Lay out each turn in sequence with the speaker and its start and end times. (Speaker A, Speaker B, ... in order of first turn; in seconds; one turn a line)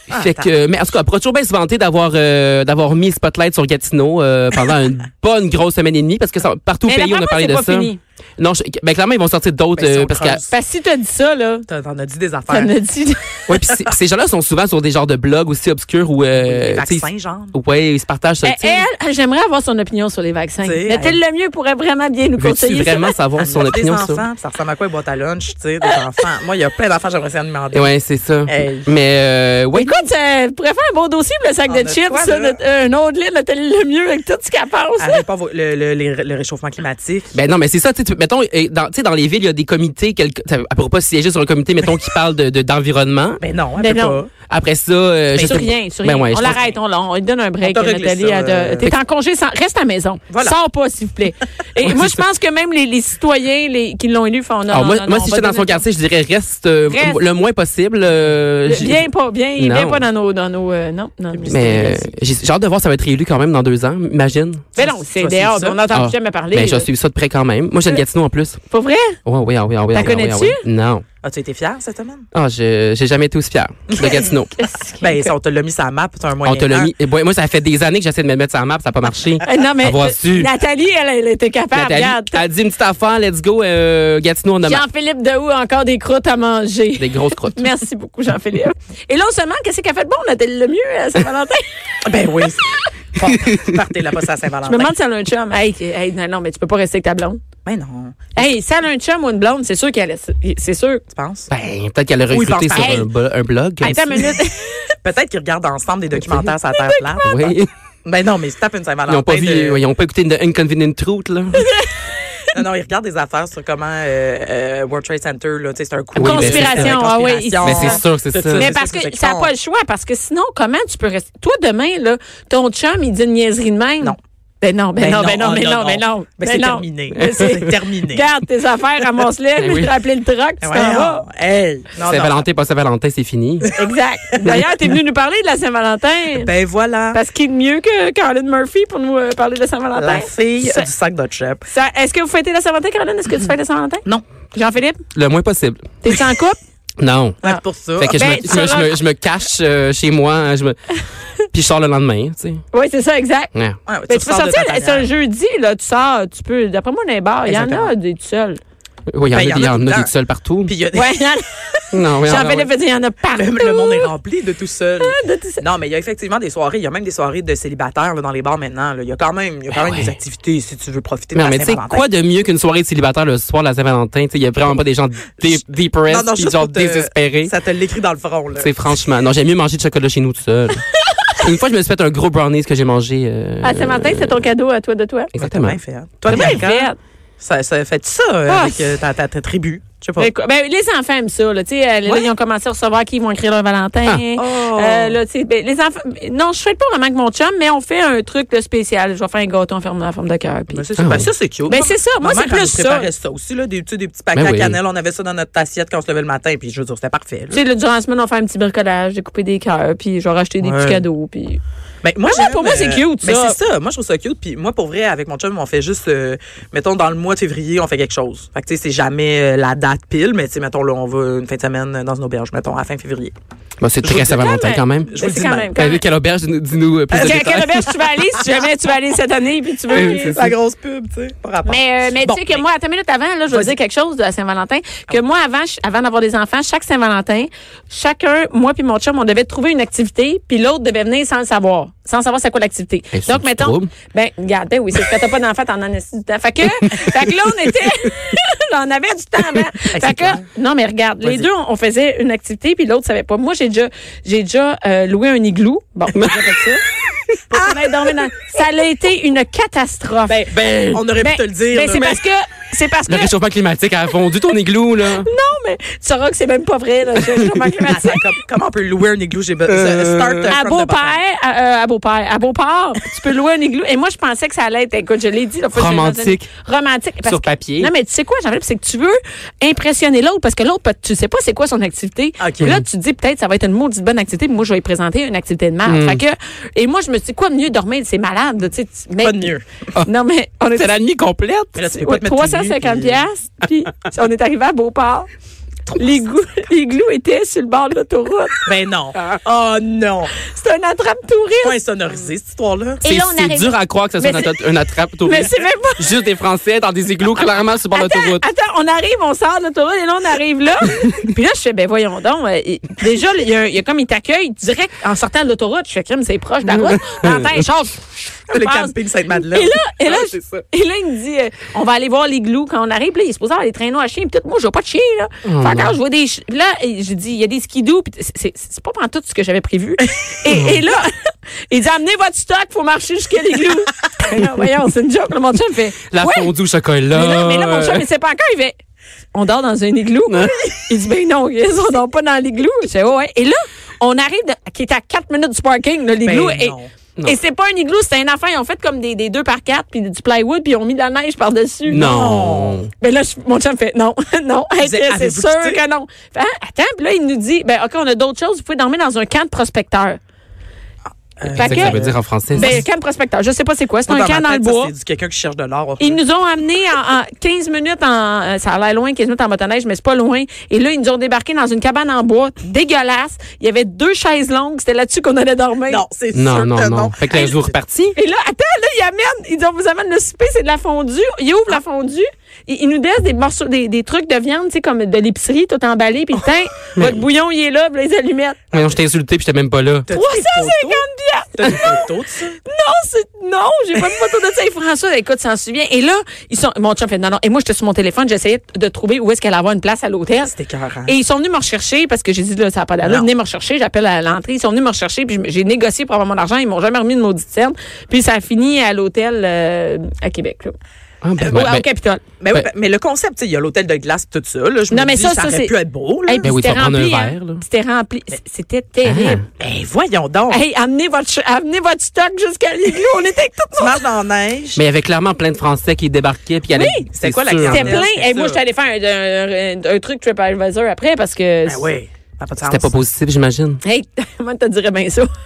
Speaker A: 0.1-0.5
Speaker B: 0.1-10.4
Speaker C: 6.9-8.0
Speaker A: 9.8-10.5
Speaker C: 10.5-11.7
Speaker A: 11.7-12.7
Speaker C: 12.5-13.4
Speaker B: 13.5-18.9
Speaker A: 16.4-17.5
Speaker C: 18.4-23.1
Speaker A: 20.6-21.2
Speaker B: 22.4-24.2
Speaker A: 23.4-27.9
Speaker B: 27.7-30.0
Speaker A: 28.4-28.9
Speaker C: 29.7-35.2
Speaker A: 31.7-32.6
Speaker A: 35.0-37.3
Speaker B: 37.3-43.4
Speaker A: 43.4-44.3
Speaker C: 43.8-44.2
Speaker B: 44.5-46.6
Speaker C: 45.4-55.8
Speaker A: 45.4-45.6
Speaker A: 47.6-48.9
Speaker A: 50.3-50.5
Speaker B: 51.8-52.2
Speaker B: 54.7-59.0
Speaker C: 56.9-57.2
Speaker C: 58.6-62.1
Speaker B: 59.6-60.0
Speaker A: 61.5-61.8
Speaker B: 61.5-64.7
Speaker C: 64.8-66.9
Speaker A: 64.8-65.8
Speaker B: 65.9-68.6
Speaker C: 68.7-69.2
Speaker B: 69.2-71.0
Speaker C: 69.9-70.6
Speaker A: 71.2-72.3
Speaker B: 72.3-74.5
Speaker A: 73.9-74.3
Speaker C: 74.0-75.3
Speaker A: 75.0-76.9
Speaker B: 76.4-80.5
Speaker C: 79.4-82.4
Speaker B: 81.7-84.8
Speaker C: 84.6-91.7
Speaker B: 87.0-87.7
Speaker A: 92.0-94.9
Speaker C: 94.6-97.4
Speaker A: 97.6-98.5
Speaker C: 98.3-101.0
Speaker A: 101.1-101.5
Speaker B: 101.5-104.2
Speaker A: 102.3-103.1
Speaker C: 102.7-103.0
Speaker C: 103.8-104.9
Speaker A: 103.8-104.4
Speaker A: 105.0-107.4
Speaker C: 106.7-107.4
Speaker B: 107.2-107.7
Speaker A: 108.0-109.8
Speaker B: 109.1-111.7
Speaker C: 111.5-112.4
Speaker A: 112.5-119.5
Speaker B: 116.2-117.0
Speaker C: 116.2-118.0
Speaker B: 117.6-118.7
Speaker C: 118.5-131.2
Speaker A: 125.0-128.3
Speaker B: 129.6-129.9
Speaker A: 130.6-132.4
Speaker B: 132.0-133.7
Speaker C: 133.7-136.5
Speaker A: 134.3-134.7
Speaker A: 136.3-137.2
Speaker C: 137.1-140.9
Speaker A: 139.9-141.6
Speaker C: 141.7-145.0
Speaker B: 145.1-146.0
Speaker C: 146.0-146.6
Speaker B: 147.0-147.4
Speaker A: 147.4-148.8
Speaker C: 147.4-149.0
Speaker B: 148.0-150.8
Speaker B: 151.5-152.6
Speaker C: 152.7-153.5
Speaker A: 153.9-155.1
Speaker C: 154.1-158.6
Speaker A: 157.4-157.9
Speaker B: 159.1-160.7
Speaker A: 159.3-160.1
Speaker A: 160.6-161.2
Speaker C: 160.9-164.1
Speaker B: 161.9-162.7
Speaker A: 163.3-172.0
Speaker C: 165.0-165.6
Speaker B: 169.7-170.1
Speaker B: 171.3-177.5
Speaker A: 176.1-178.7
Speaker B: 178.6-184.4
Speaker C: 183.6-185.3
Speaker B: 185.3-186.6
Speaker A: 185.4-190.3
Speaker C: 186.3-187.0
Speaker C: 188.5-188.9
Speaker C: 190.2-200.8
Speaker A: 194.3-195.2
Speaker A: 200.7-207.6
Speaker B: 201.0-201.3
Speaker C: 201.7-203.1
Speaker B: 204.3-204.8
Speaker C: 207.5-211.6
Speaker A: 210.6-211.0
Speaker A: 212.0-223.3
Speaker C: 212.2-213.6
Speaker B: 223.8-225.1
Speaker A: 224.0-224.5
Speaker C: 224.2-226.0
Speaker A: 225.0-225.7
Speaker B: 225.7-227.9
Speaker C: 227.1-230.3
Speaker A: 227.1-227.9
Speaker A: 229.9-232.6
Speaker B: 229.9-230.5
Speaker C: 231.6-256.8
Speaker B: 243.1-243.9
Speaker A: 249.9-250.4
Speaker A: 251.2-251.5
Speaker B: 256.1-256.5
Speaker A: 257.5-258.3
Speaker C: 257.5-260.4
Speaker A: 260.3-262.2
Speaker B: 260.5-261.0
Speaker C: 261.2-263.3
Speaker B: 263.1-265.3
Speaker C: 265.1-268.3
Speaker A: 267.8-271.2
Speaker B: 269.7-270.5
Speaker C: 270.5-291.0
Speaker B: 275.7-276.4
Speaker B: 277.2-277.9
Speaker A: 282.4-282.8
Speaker B: 285.9-286.2
Speaker A: 289.2-289.6
Speaker B: 290.8-291.7
Speaker A: 291.7-293.2
Speaker C: 291.8-295.3
Speaker A: 295.9-296.2
Speaker C: 295.9-298.6
Speaker A: 298.6-300.3
Speaker C: 300.4-301.8
Speaker A: 301.6-303.0
Speaker C: 303.0-304.5
Speaker B: 303.0-308.4
Speaker C: 305.2-306.1
Speaker C: 307.9-336.5
Speaker B: 316.7-317.6
Speaker A: 318.5-320.6
Speaker B: 325.4-325.9
Speaker B: 330.5-330.8
Speaker B: 336.1-338.0
Speaker C: 337.1-338.8
Speaker C: 339.3-352.2
Speaker B: 340.3-340.5
Speaker A: 346.2-346.9
Speaker B: 351.9-352.9
Speaker A: 351.9-352.8
Speaker C: 353.0-360.2
Speaker A: 354.8-355.8
Speaker A: 361.4-362.8
Speaker C: 361.5-364.9
Speaker B: 361.6-362.8
Speaker A: 364.1-366.2
Speaker C: 366.0-376.0
Speaker A: 375.9-377.7
Speaker B: 376.3-378.1
Speaker C: 378.1-388.6
Speaker B: 388.7-390.1
Speaker A: 390.1-391.0
Speaker C: 390.1-392.1
Speaker A: 391.6-392.6
Speaker C: 392.6-400.5
Speaker A: 400.4-401.1
Speaker C: 401.1-410.8
Speaker A: 403.0-403.3
Speaker B: 411.2-411.8
Speaker C: 411.4-412.2
Speaker A: 412.4-416.5
Speaker C: 414.9-415.7
Speaker C: 416.2-419.4
Speaker B: 416.4-417.6
Speaker B: 419.0-419.4
Speaker A: 419.6-420.6
Speaker C: 420.5-424.0
Speaker A: 423.8-424.8
Speaker B: 424.8-428.0
Speaker C: 426.7-427.1
Speaker A: 427.1-428.6
Speaker C: 427.6-431.9
Speaker A: 431.6-432.9
Speaker B: 432.6-433.8
Speaker C: 433.8-435.3